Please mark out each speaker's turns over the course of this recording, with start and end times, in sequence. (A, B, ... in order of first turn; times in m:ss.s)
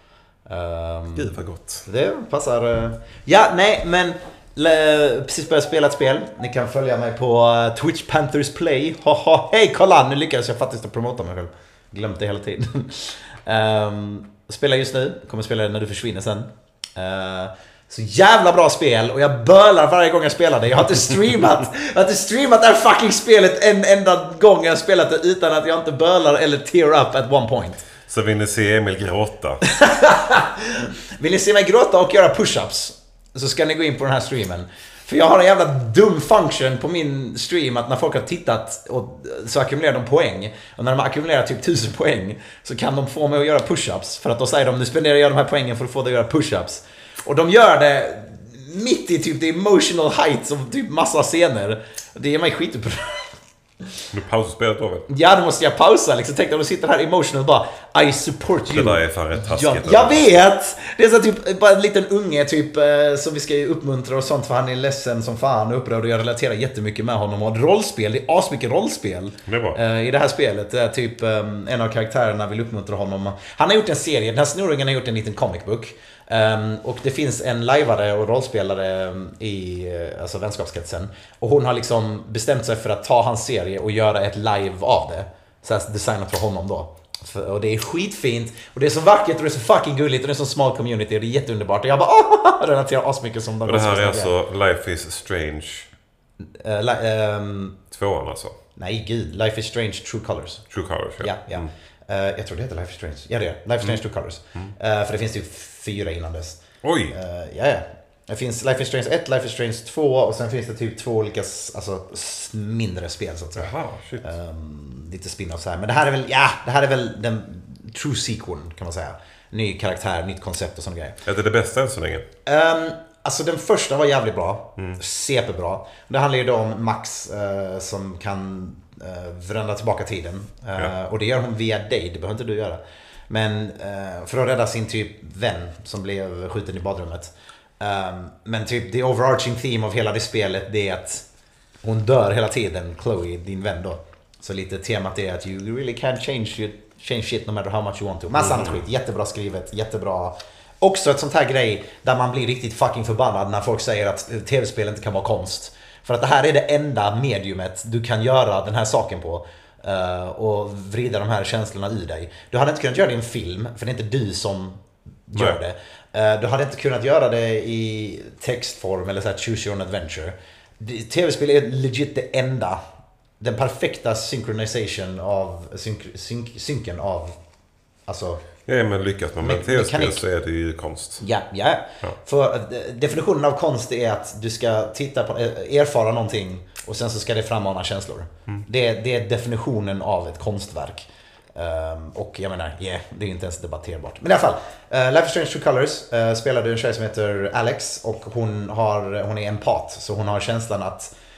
0:00.5-0:01.3 A
0:01.2-0:01.9 B
0:01.9-0:27.9 A
0:28.1-0:29.6 B
0:29.6-0:53.3 A
0:54.1-0:55.1 B
0:55.1-1:34.3 A
0:58.7-1:00.3 B
1:09.5-1:09.8 B
1:33.6-1:35.9 B
1:36.6-1:37.8 A
1:37.9-1:38.6 B
1:38.8-1:40.7 A
1:40.7-1:41.7 B
1:41.2-2:01.2 A
1:46.8-1:47.2 B
1:53.6-1:54.3 B
2:01.2-2:02.3 B
2:02.4-2:21.2 A
2:21.8-2:52.8 A
2:28.4-2:28.8 B
2:53.4-2:57.4 A
2:58.1-2:58.4 A
2:58.7-3:01.2 B
2:59.4-3:00.2 A
3:01.2-3:21.1 A